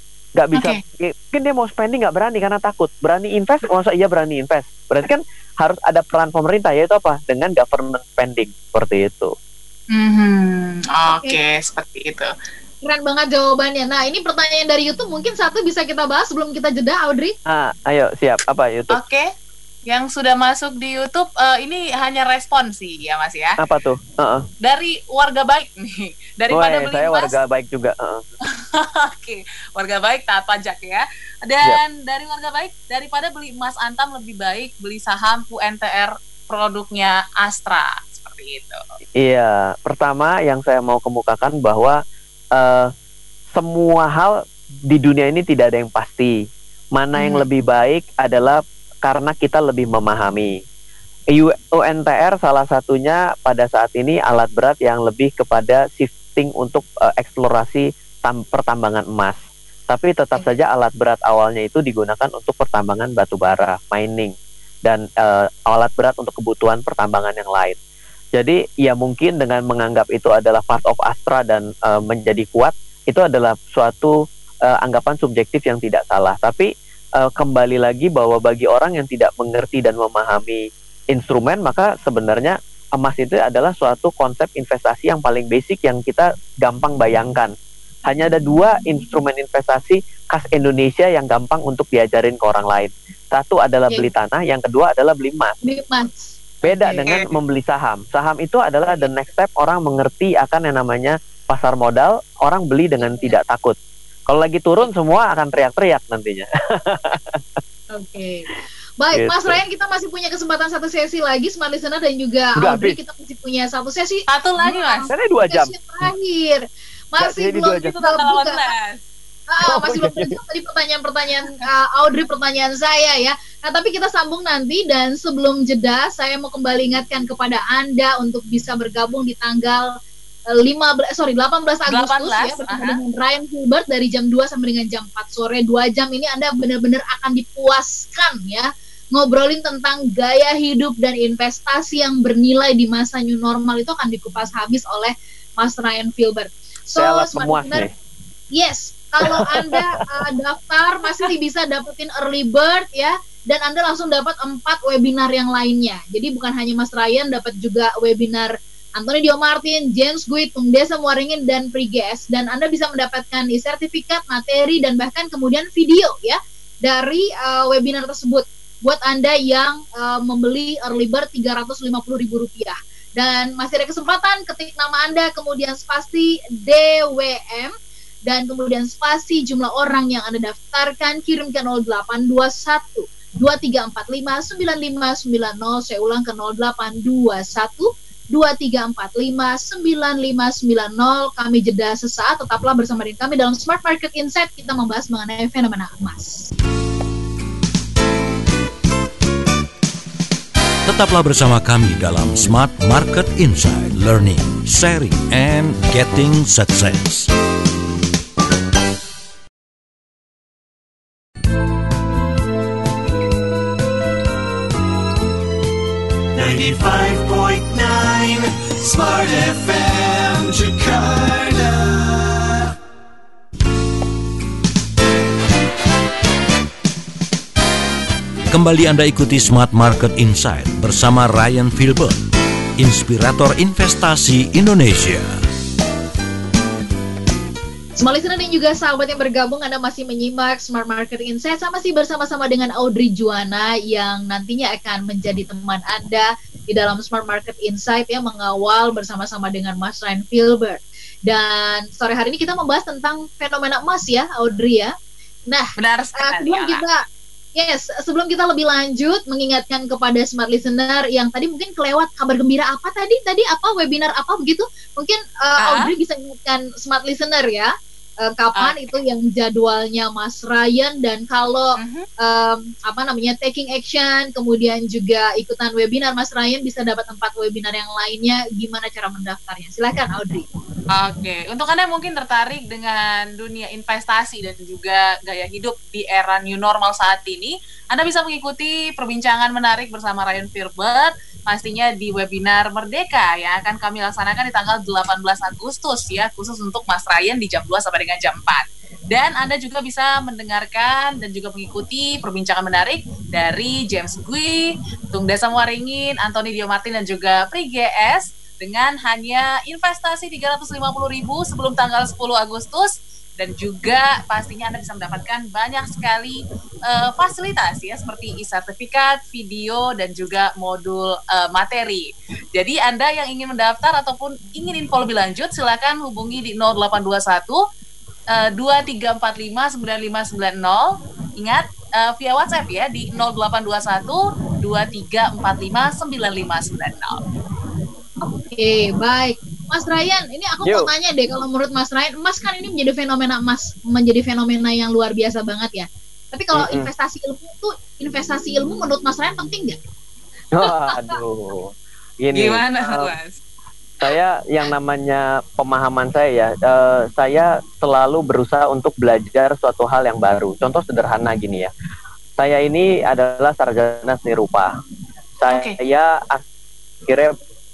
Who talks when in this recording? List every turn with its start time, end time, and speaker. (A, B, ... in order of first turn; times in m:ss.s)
0:00.3-0:09.3 A
0:00.6-0:00.8 B
0:09.9-0:12.3 B
0:12.8-0:17.3 C
0:17.5-0:19.0 A
0:18.9-0:19.3 B
0:19.9-0:23.6 B
0:23.6-0:24.5 A
0:24.6-0:27.4 B
0:26.5-0:28.2 A
0:28.5-0:38.8 B
0:39.2-0:42.0 A
0:42.5-0:42.9 A
0:43.5-0:46.4 A
0:46.9-0:50.6 A
0:47.2-0:47.4 B
0:51.3-1:07.8 A
1:08.3-1:14.2 A
1:14.7-1:16.7 A
1:17.2-1:27.5 A
1:28.0-1:35.5 A
1:35.6-1:37.0 C
1:36.6-1:43.8 A
1:43.0-1:43.4 C
1:44.3-1:47.4 A
1:47.9-1:56.6 C
1:49.1-1:49.6 A
1:52.6-1:53.0 A
1:54.3-1:55.1 B
1:55.1-1:55.7 A
1:57.1-1:58.7 C
1:57.2-1:57.9 A
1:57.9-1:59.0 B
1:59.5-2:09.8 C
1:59.6-2:00.4 A
2:10.5-2:27.9 C
2:11.9-2:13.0 B
2:27.0-2:27.9 A
2:28.5-2:57.7 C
2:29.2-2:29.8 A
2:58.3-3:16.5 C
3:20.8-3:27.3 D
3:36.3-3:42.7 E
3:48.5-3:52.2 D
3:52.8-3:55.4 D
3:58.0-4:14.9 C
4:15.8-4:16.8 B
4:16.2-4:17.0 C
4:17.6-4:27.7 C
4:25.6-4:25.9 B
4:28.2-4:40.5 C
4:28.6-4:28.9 B
4:31.8-4:32.1 B
4:40.9-5:27.6 B
5:28.3-5:37.2 B
5:38.2-5:49.8 C
5:40.6-5:40.9 A
5:46.5-5:46.9 A
5:50.5-5:53.1 A
5:50.9-5:51.1 C
5:52.3-5:53.4 B
5:54.0-6:01.7 A
6:02.4-6:04.7 A
6:05.4-6:06.4 A
6:05.5-6:05.8 B
6:07.0-6:07.4 A